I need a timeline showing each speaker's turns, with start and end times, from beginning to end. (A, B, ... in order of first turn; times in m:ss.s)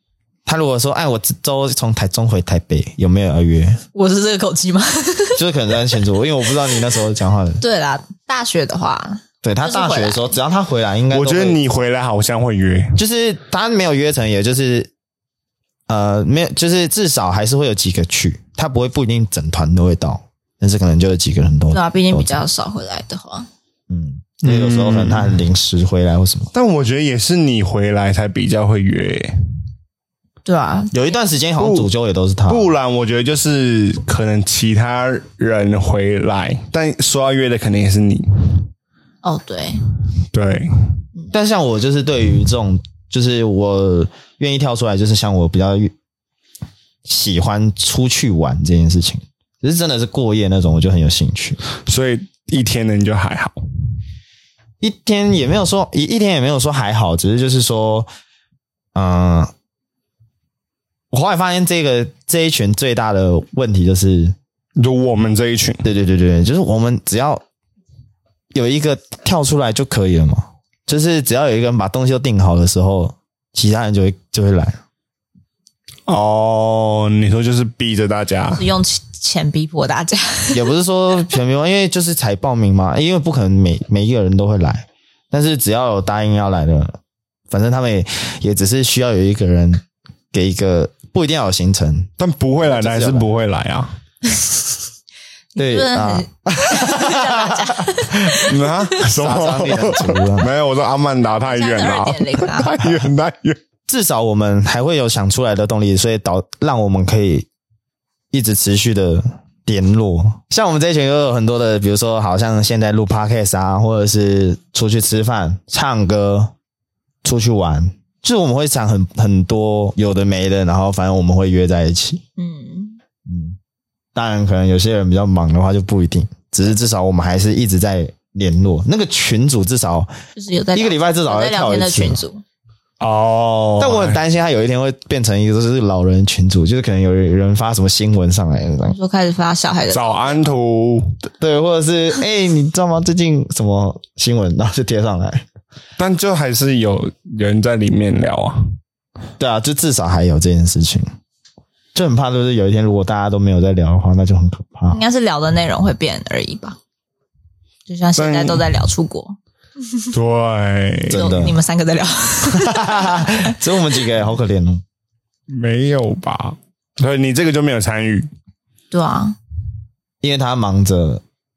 0:00.4-0:03.8 A
0:03.9-0:05.4 B
0:05.4-0:07.6 A
0:07.6-0:10.3 B
0:09.4-0:11.6 A
0:11.1-0:13.0 C
0:13.0-0:14.9 A
0:15.9-0:22.3 A
0:21.7-0:23.5 B
0:23.9-0:26.5 A
0:24.4-0:25.4 C
0:26.5-0:29.4 C
0:30.4-0:31.2 B
0:30.9-0:32.7 A
0:31.6-0:31.9 C
0:32.5-0:38.7 C
0:39.2-0:39.8 B
0:40.3-0:41.0 C
0:41.3-0:45.9 A
0:47.0-0:51.6 A
0:51.8-0:53.6 C
0:54.8-0:58.1 A
0:58.9-0:59.5 A
1:01.1-1:04.4 A
1:04.8-1:05.8 C
1:05.8-1:07.4 A
1:08.5-1:14.8 A
1:16.1-1:18.6 C
1:18.6-1:20.6 B
1:20.5-1:27.0 A
1:27.5-1:32.1 A
1:32.2-1:33.9 C
1:32.6-1:33.2 A
1:35.5-1:38.9 B
1:35.6-1:38.4 A
1:38.5-1:43.6 C
1:39.0-1:40.5 A
1:41.4-1:42.8 B
1:43.9-1:47.5 A
1:48.3-1:56.5 A
1:57.2-2:02.2 A
2:02.4-2:03.0 B
2:03.2-2:03.6 A
2:04.1-2:10.1 A
2:10.4-2:12.4 B
2:10.7-2:12.2 A
2:13.0-2:14.2 C
2:13.8-2:18.9 A
2:18.8-2:20.4 B
2:19.9-2:21.1 C
2:21.4-2:25.4 A
2:26.0-2:28.7 C
2:29.4-2:31.1 A
2:31.9-2:35.0 A
2:34.9-2:36.8 B
2:37.9-2:39.4 B
2:38.2-2:38.7 C
2:40.1-2:41.3 C
2:41.1-2:41.6 A
2:41.1-2:43.4 B
2:42.5-2:44.8 A
2:45.5-2:48.3 C
2:48.9-2:49.4 B
2:50.2-2:51.2 A